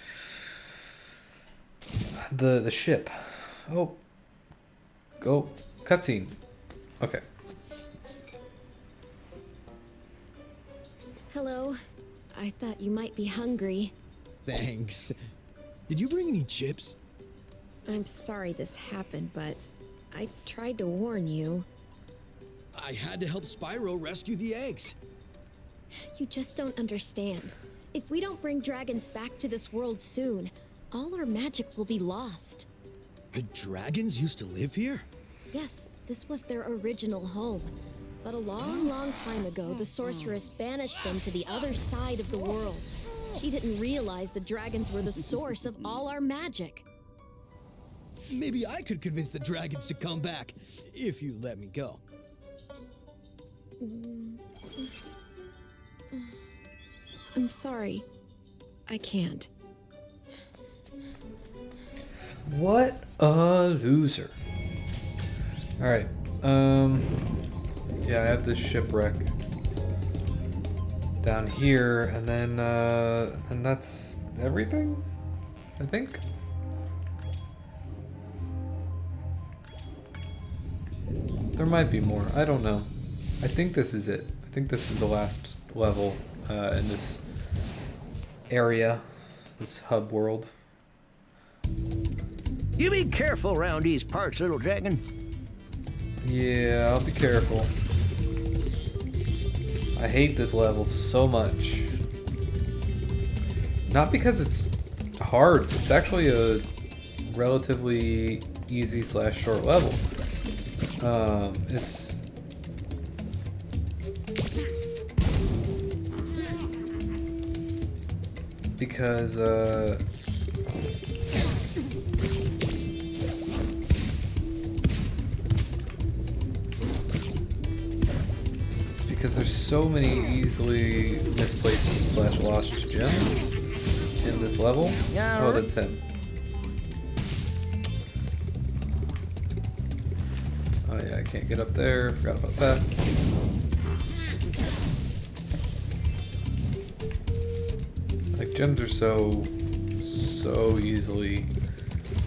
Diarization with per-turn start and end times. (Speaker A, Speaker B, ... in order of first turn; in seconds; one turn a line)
Speaker A: 2.3-4.0
Speaker A: 5.2-6.4
Speaker B: 11.3-11.8
Speaker B: 12.3-13.9
Speaker C: 14.4-15.1
Speaker C: 15.9-16.9
Speaker B: 17.9-19.6
Speaker B: 20.1-21.6
Speaker C: 22.7-24.9
Speaker B: 26.1-32.7
Speaker C: 33.3-35.1
Speaker B: 35.5-37.7
Speaker B: 38.2-46.8
Speaker C: 48.3-52.0
Speaker B: 53.8-54.9
Speaker B: 57.3-58.0
Speaker B: 58.9-59.5
Speaker A: 62.5-64.3
Speaker A: 65.8-67.3
Speaker A: 68.0-69.3
Speaker A: 71.2-75.0
Speaker A: 75.8-76.2
Speaker A: 81.5-87.2
Speaker A: 88.5-90.5
Speaker D: 92.8-95.0
Speaker A: 96.2-97.7
Speaker A: 99.9-102.0
Speaker A: 103.8-106.7
Speaker A: 107.2-110.0
Speaker A: 111.0-112.2
Speaker A: 118.8-120.0
Speaker A: 129.0-133.5
Speaker A: 134.2-136.0
Speaker D: 135.1-135.7
Speaker A: 140.8-142.9
Speaker A: 148.3-151.5